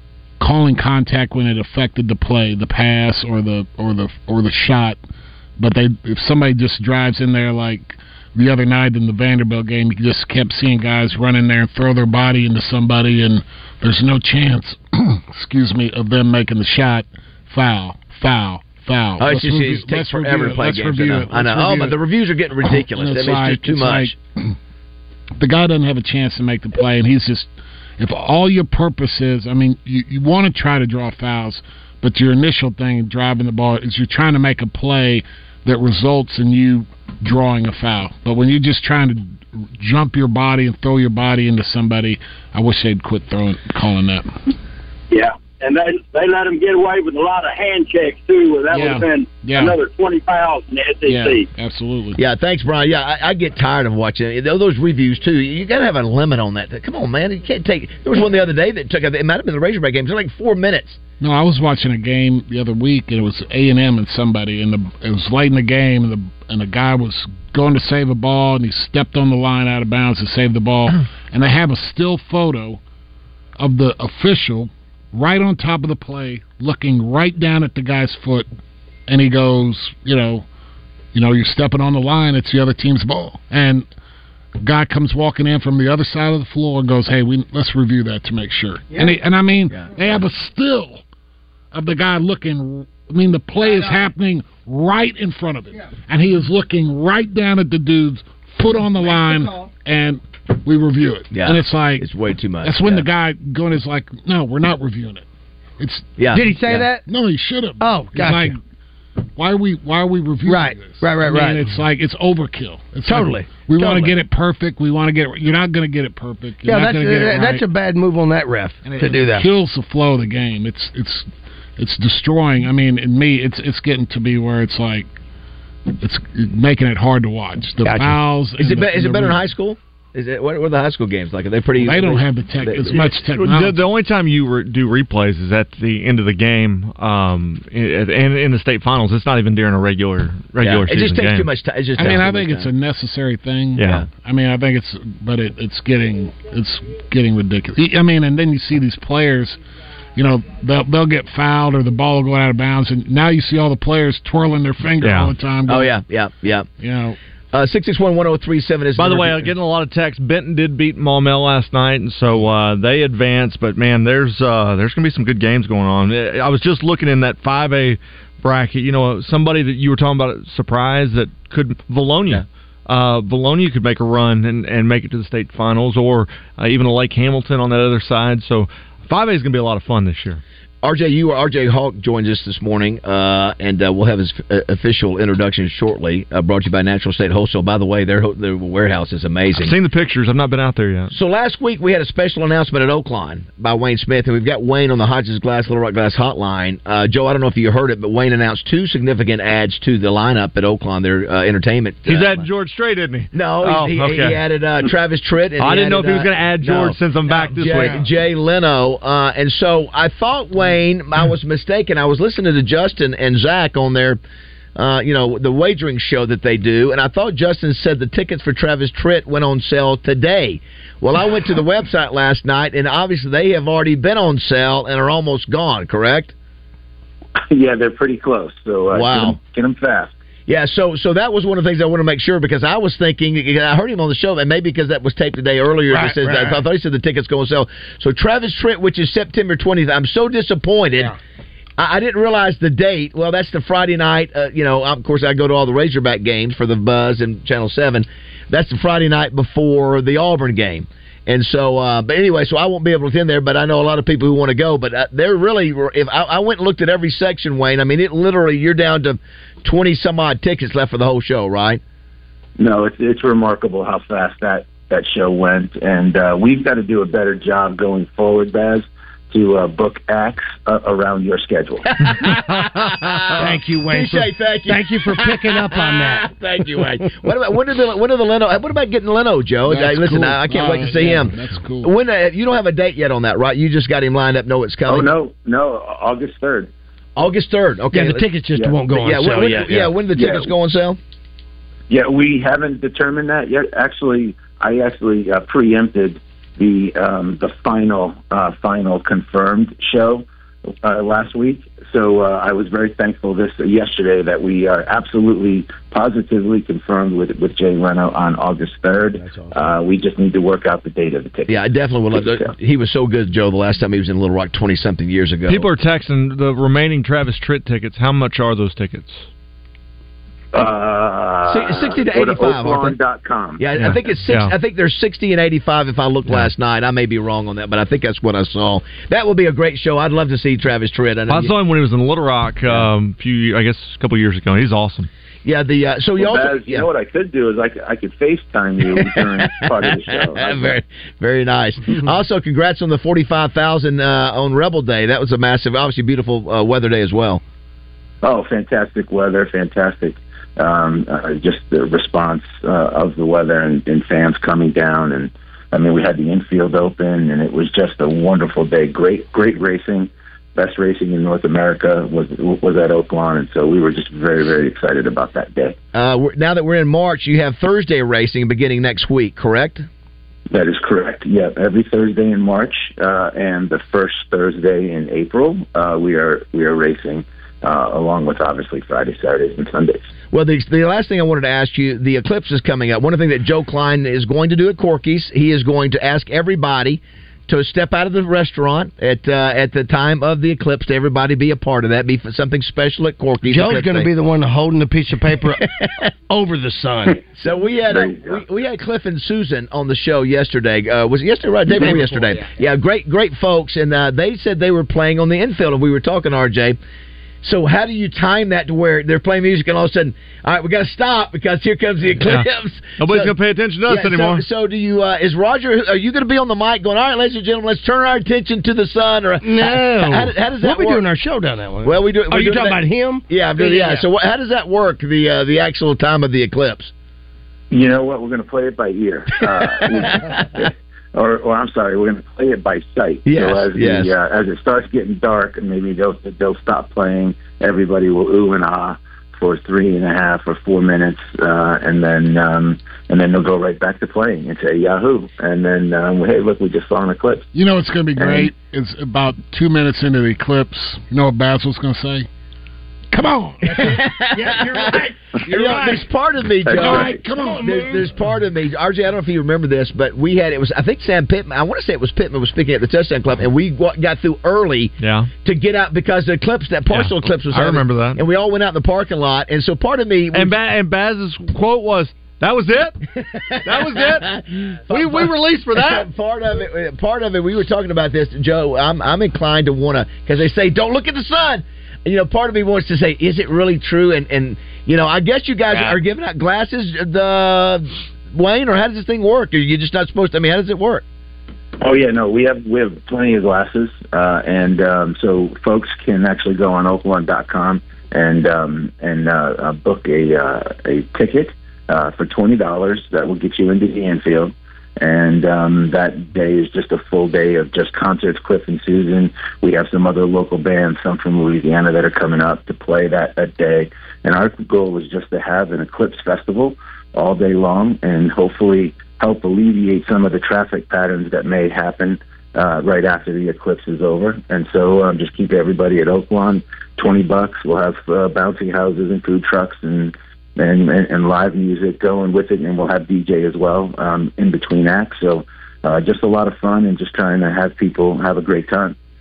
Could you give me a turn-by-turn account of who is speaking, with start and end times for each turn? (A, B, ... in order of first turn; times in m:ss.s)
0:00.4-0:05.0 A
0:05.6-0:22.0 A
0:19.2-0:24.1 B
0:22.6-0:24.5 A
0:25.4-0:44.3 A
0:45.1-0:51.4 C
0:48.7-0:49.8 A
0:51.0-0:52.2 A
0:52.2-1:01.0 B
1:01.2-1:12.8 A
1:13.6-1:18.5 A
1:19.1-1:20.4 A
1:21.1-1:23.9 A
1:24.6-1:31.0 A
1:31.7-1:42.1 A
1:41.3-1:43.0 B
1:42.6-1:45.2 A
1:45.8-1:46.2 A
1:46.2-1:46.8 B
1:46.3-1:47.0 D
1:46.7-1:48.6 A
1:47.8-1:48.5 D
1:49.4-1:57.6 A
1:50.4-1:51.6 D
1:53.0-1:54.1 D
1:56.6-1:59.4 D
1:58.8-2:05.1 A
2:06.0-2:09.4 A
2:07.8-2:08.2 D
2:08.6-2:13.0 B
2:11.8-2:13.8 A
2:13.3-2:21.5 E
2:20.6-2:22.7 B
2:22.0-2:29.6 A
2:23.8-2:24.0 E
2:23.8-2:24.1 B
2:30.2-2:35.9 A
2:35.0-2:35.3 E
2:35.7-2:36.7 B
2:36.8-2:37.2 A
2:37.5-2:39.5 B
2:39.0-3:00.4 E
3:00.8-3:09.7 B
3:09.5-3:11.1 E
3:11.1-3:22.5 B
3:22.0-3:24.4 E
3:23.3-3:34.2 B
3:25.6-3:28.0 E
3:27.6-3:28.0 D
3:34.8-3:46.3 B
3:47.5-3:50.1 F
3:48.9-3:49.4 B
3:50.5-4:01.1 B
3:55.9-3:56.6 D
4:01.8-4:21.8 B
4:22.6-4:31.8 F
4:32.0-4:45.1 B
4:33.4-4:36.3 D
4:39.6-4:41.9 A
4:44.8-4:46.7 F
4:47.2-4:48.3 B
4:47.9-4:49.9 D
4:48.9-4:51.0 B
4:50.2-4:50.5 F
4:51.9-5:00.2 F
5:00.8-5:12.5 F
5:09.2-5:09.7 D
5:11.5-5:15.7 B
5:15.5-5:19.2 E
5:20.5-5:23.6 F
5:21.5-5:23.0 B
5:23.6-5:31.5 B
5:23.8-5:24.5 E
5:31.3-5:35.1 E
5:35.4-5:36.9 B
5:36.2-5:40.8 F
5:38.9-5:47.4 B
5:48.2-6:05.8 F
6:05.9-6:09.8 B
6:10.5-6:20.0 F
6:20.3-6:34.1 B
6:33.5-6:35.6 D
6:35.8-6:36.0 B
6:36.3-6:37.2 D
6:37.4-6:46.8 B
6:37.9-6:38.4 F
6:41.8-6:42.2 D
6:47.4-6:53.3 B
6:52.2-6:54.4 E
6:53.8-7:01.0 B
6:59.4-7:04.0 D
7:01.8-7:06.9 B
7:07.7-7:27.4 F
7:09.5-7:10.3 B
7:13.2-7:14.1 B
7:27.5-7:32.3 A
7:28.2-7:28.5 F
7:33.1-7:34.0 A
7:33.6-7:36.0 D
7:33.8-7:50.6 B
7:36.6-7:37.2 F
7:36.7-7:38.1 A
7:37.1-7:38.0 D
7:45.0-7:45.3 E
7:46.9-7:48.2 E
7:50.3-7:53.0 E
7:53.2-8:11.0 B
7:53.6-7:56.1 E
8:11.8-8:58.9 F